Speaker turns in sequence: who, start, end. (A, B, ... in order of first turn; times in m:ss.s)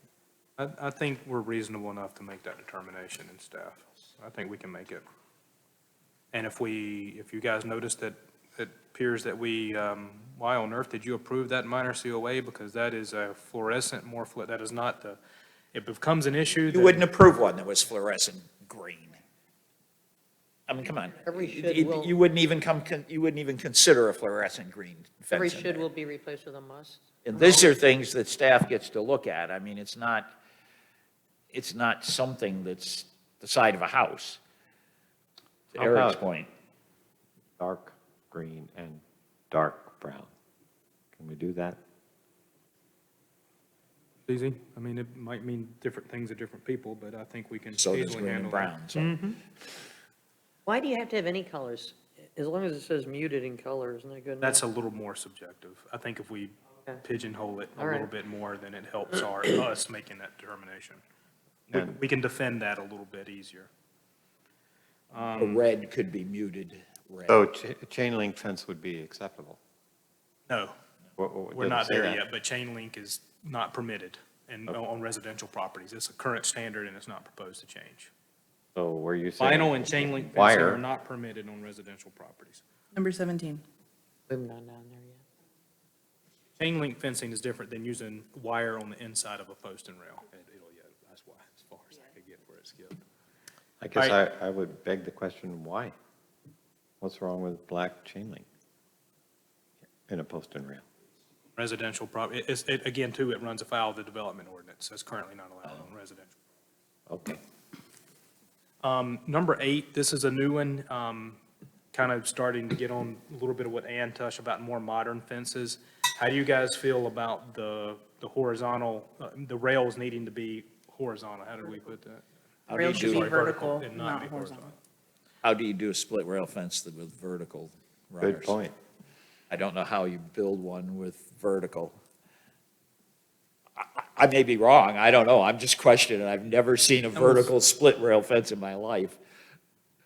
0:00.6-0:05.0 A
0:06.3-0:15.2 A
0:15.7-0:17.1 A
0:16.7-0:19.2 B
0:20.7-0:25.9 B
0:21.2-0:22.2 C
0:25.3-0:27.1 C
0:27.2-0:30.3 B
0:31.5-0:34.4 B
0:35.7-0:36.5 B
0:35.8-0:36.2 D
0:37.6-0:40.3 D
0:41.2-0:41.8 D
0:44.3-0:48.7 A
0:47.7-0:49.2 B
0:49.0-0:49.4 C
0:50.7-0:54.6 C
0:54.4-1:01.0 A
0:57.8-0:58.1 C
1:01.7-1:03.7 A
1:05.1-1:05.7 A
1:05.4-1:07.4 B
1:07.3-1:09.6 D
1:10.5-1:10.7 A
1:11.2-1:12.2 D
1:11.5-1:18.1 A
1:18.8-1:20.8 D
1:19.4-1:22.6 A
1:22.9-1:23.6 E
1:24.3-1:25.2 C
1:26.6-1:33.0 A
1:33.8-1:35.9 D
1:37.0-1:38.4 D
1:40.1-1:40.8 D
1:41.6-1:46.4 A
1:47.1-1:47.4 D
1:48.8-1:51.4 A
1:51.9-2:02.2 A
2:02.7-2:03.3 B
2:02.7-2:04.7 E
2:02.8-2:04.8 A
2:05.4-2:08.6 B
2:08.2-2:08.7 D
2:09.5-2:12.0 B
2:13.8-2:19.2 B
2:17.1-2:17.5 A